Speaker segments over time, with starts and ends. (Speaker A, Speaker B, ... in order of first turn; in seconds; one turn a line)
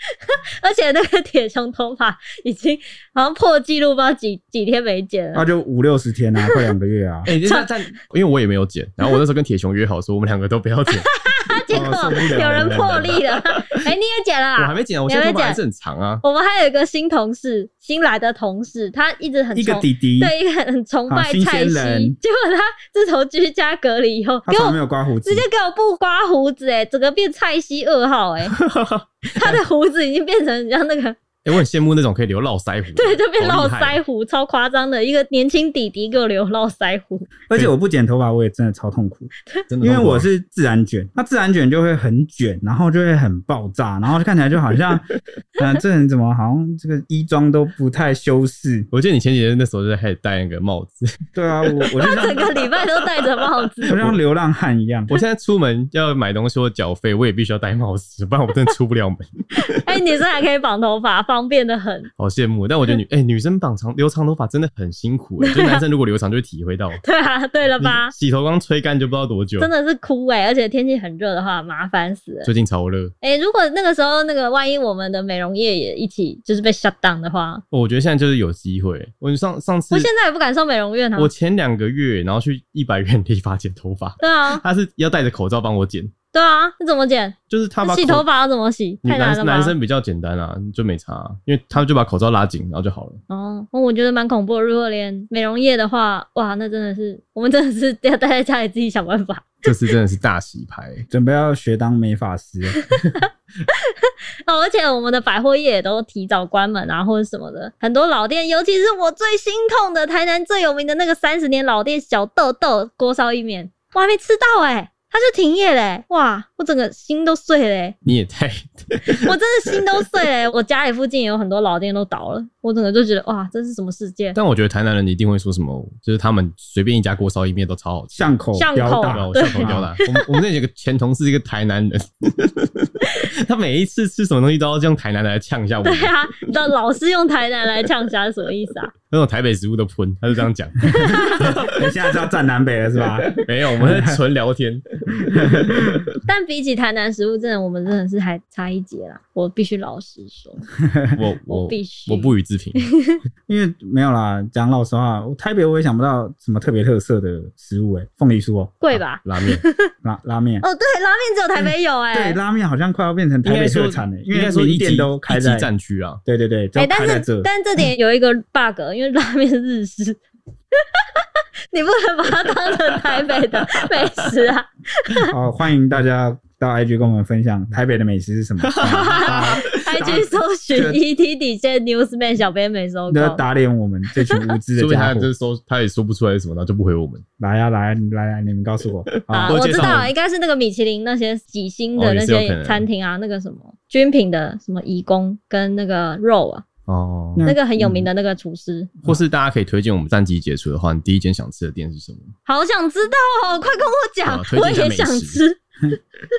Speaker A: 0.3-5.5
Speaker B: 5.3-7.3
Speaker C: 7.3-11.1
Speaker A: 7.4-7.7
Speaker A: 11.0-15.6
Speaker B: 11.7-13.2
Speaker C: 14.6-16.2
Speaker A: 16.2-28.6
Speaker B: 19.5-20.3
Speaker B: 21.1-22.2
Speaker B: 24.5-25.5
Speaker C: 28.4-29.6
Speaker A: 29.4-31.2
Speaker C: 31.4-34.0
Speaker A: 33.0-37.3
Speaker B: 37.5-48.9
Speaker C: 39.7-40.3
Speaker C: 48.9-51.0
Speaker B: 51.4-52.6
Speaker A: 52.0-54.0
Speaker C: 53.9-54.2
Speaker B: 53.9-55.1
Speaker C: 55.1-59.7
Speaker A: 59.7-62.1
Speaker C: 62.2-67.0
Speaker A: 65.4-65.8
Speaker A: 67.0-68.1
Speaker C: 67.8-69.7
Speaker A: 69.6-72.5
Speaker C: 72.5-73.1
Speaker A: 73.2-77.6
Speaker C: 77.7-80.1
Speaker A: 79.9-81.3
Speaker C: 81.2-86.1
Speaker A: 84.2-84.6
Speaker A: 86.3-89.8
Speaker C: 87.5-88.3
Speaker C: 89.0-93.2
Speaker A: 93.3-99.7
Speaker C: 99.6-101.1
Speaker B: 101.1-102.8
Speaker A: 102.8-118.0
Speaker C: 118.1-119.3
Speaker A: 119.1-124.4
Speaker C: 124.3-128.4
Speaker B: 128.1-129.9
Speaker A: 128.5-130.3
Speaker C: 129.1-136.1
Speaker A: 135.8-138.9
Speaker C: 139.1-141.9
Speaker A: 140.9-141.5
Speaker B: 141.4-144.2
Speaker C: 143.3-146.1
Speaker B: 145.3-145.8
Speaker A: 146.3-150.6
Speaker C: 151.1-152.9
Speaker A: 151.5-153.2
Speaker B: 153.5-158.8
Speaker A: 158.8-159.9
Speaker C: 158.9-159.6
Speaker B: 160.0-160.7
Speaker A: 160.6-162.4
Speaker B: 161.6-165.7
Speaker C: 163.4-166.2
Speaker B: 166.2-167.5
Speaker A: 166.8-170.2
Speaker A: 171.7-175.3
Speaker B: 175.3-181.0
Speaker C: 178.6-179.8
Speaker A: 179.1-183.4
Speaker B: 183.1-185.3
Speaker C: 184.8-187.2
Speaker B: 187.4-190.1
Speaker C: 189.1-190.1
Speaker A: 189.3-196.7
Speaker C: 192.0-192.8
Speaker C: 196.9-197.5
Speaker B: 197.4-198.1
Speaker A: 197.4-198.9
Speaker C: 199.1-202.3
Speaker A: 202.5-205.6
Speaker C: 204.3-205.4